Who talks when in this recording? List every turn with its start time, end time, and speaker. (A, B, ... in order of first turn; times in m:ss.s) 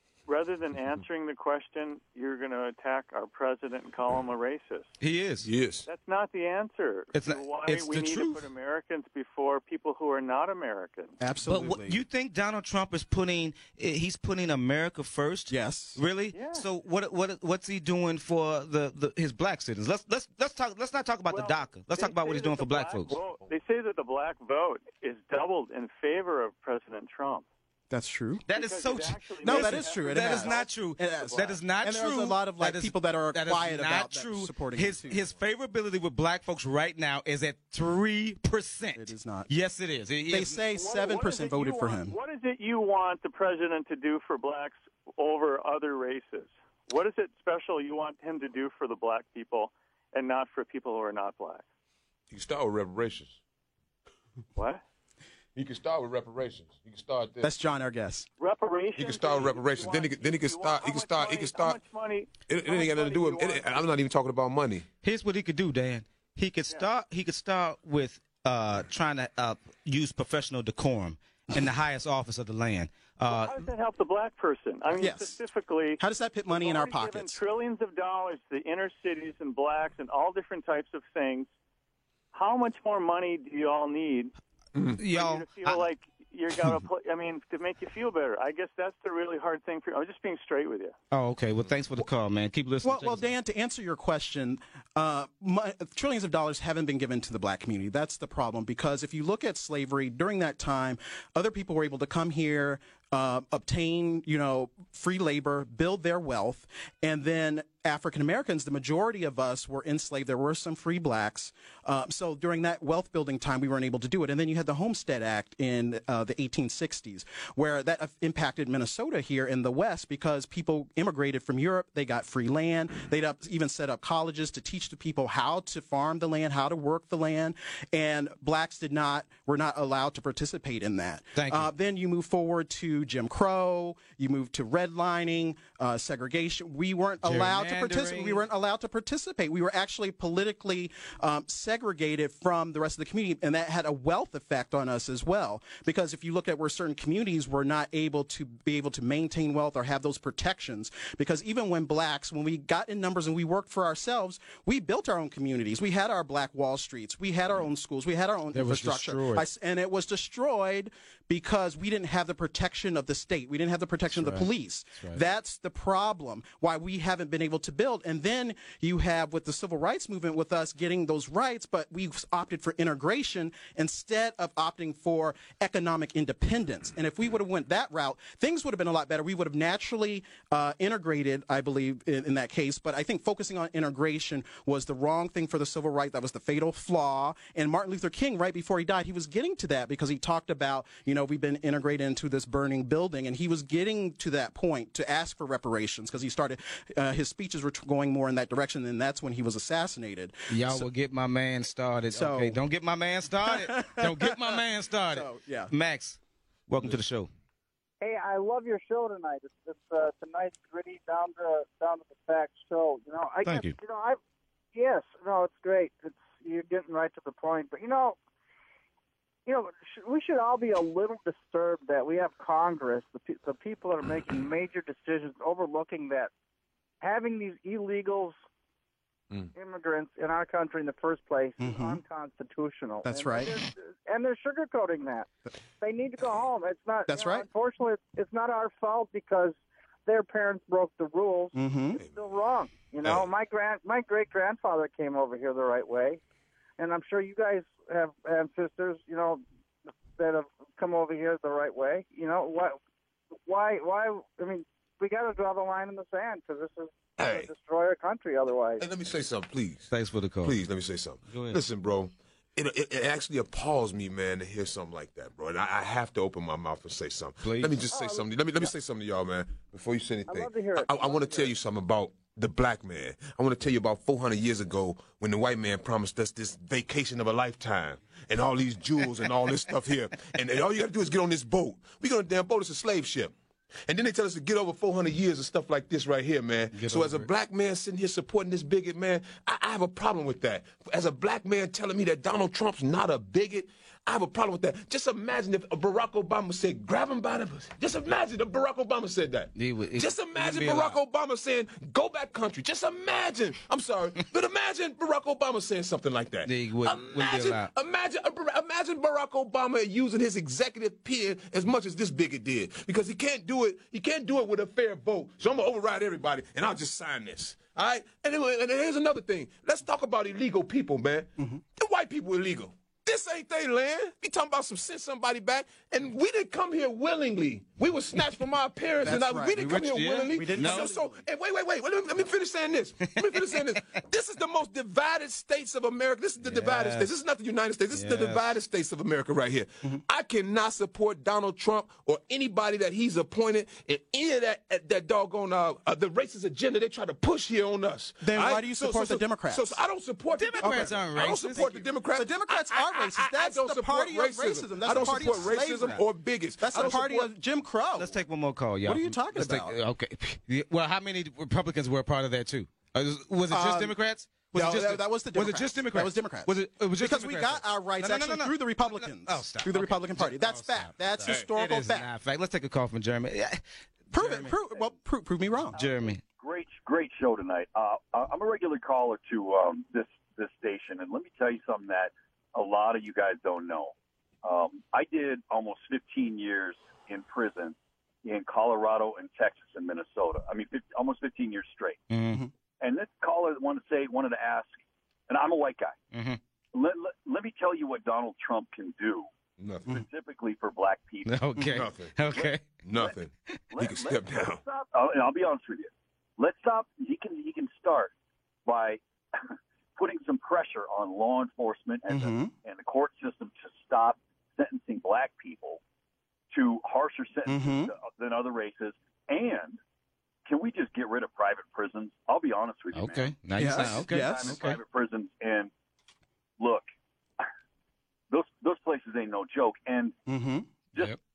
0:00.3-0:04.9 A
0:05.0-0:05.5 B
0:05.4-0:05.9 C
0:05.9-0:11.2 A
0:07.1-0:08.4 B
0:11.2-0:12.0 D
0:11.4-0:23.2 B
0:15.5-0:16.0 D
0:16.3-0:16.6 A
0:21.3-0:27.4 A
0:27.9-0:28.4 D
0:28.5-0:40.6 B
0:28.5-0:31.6 A
0:29.4-0:35.2 D
0:39.0-0:39.5 D
0:40.3-0:42.2 D
0:40.7-0:51.6 A
0:52.3-0:53.4 C
0:54.6-0:54.8 A
0:55.5-0:57.5 C
0:57.4-0:58.3 D
0:58.4-1:03.8 A
0:59.0-1:01.8 C
1:02.5-1:04.8 C
1:05.0-1:13.6 B
1:13.3-1:21.5 A
1:15.0-1:15.4 D
1:16.0-1:17.4 D
1:22.3-1:24.3 A
1:24.9-1:25.8 B
1:25.1-1:30.9 A
1:31.1-1:33.3 B
1:32.8-3:20.9 D
2:11.3-2:11.7 B
2:17.2-2:18.4 B
2:38.5-2:39.4 B
2:44.1-2:44.5 B
3:20.5-3:27.3 B
3:22.1-3:22.6 D
3:23.4-3:25.7 D
3:28.0-3:34.2 E
3:33.4-3:33.7 B
3:34.7-3:38.2 E
3:39.4-3:46.3 E
3:47.0-3:48.4 E
3:49.5-3:55.3 E
3:51.6-3:52.0 D
3:53.0-3:53.6 D
3:55.8-4:06.2 E
3:57.1-3:57.5 D
4:01.5-4:02.0 D
4:02.0-4:02.3 C
4:06.8-4:09.4 E
4:10.2-4:12.8 E
4:13.4-4:18.9 E
4:17.2-4:17.5 C
4:18.8-4:43.3 C
4:19.9-4:20.6 B
4:21.3-4:21.6 B
4:27.4-4:27.8 B
4:27.9-4:28.7 E
4:30.3-4:31.5 E
4:43.9-5:57.3 C
4:46.7-4:47.3 B
4:59.6-5:01.0 B
5:06.4-5:07.7 B
5:29.0-5:31.2 D
5:29.5-5:30.9 B
5:33.3-5:33.8 B
5:36.4-5:37.1 B
5:37.9-5:38.5 B
5:48.2-5:49.8 D
5:50.3-5:51.8 B
5:50.6-5:51.0 D
5:51.6-5:56.0 D
5:54.9-5:56.0 B
5:56.6-5:58.1 D
5:58.0-6:14.6 B
5:58.8-5:59.8 D
6:03.5-6:03.9 D
6:04.5-6:12.1 D
6:14.1-6:15.8 D
6:15.7-6:16.2 B
6:15.7-6:32.0 F
6:32.1-6:32.5 B
6:32.8-6:36.0 F
6:36.1-6:36.4 B
6:36.7-6:39.3 F
6:39.6-6:40.0 C
6:39.9-6:41.3 F
6:41.2-6:42.6 B
6:41.6-6:42.2 C
6:42.7-6:44.6 C
6:43.7-6:48.1 F
6:48.6-6:55.8 F
6:52.1-6:52.5 D
6:56.5-6:59.8 F
6:57.4-6:57.9 D
7:00.4-7:05.7 F
7:02.9-7:04.8 B
7:03.6-7:04.6 D
7:06.6-7:06.8 F
7:08.3-7:10.2 F
7:10.3-7:10.7 D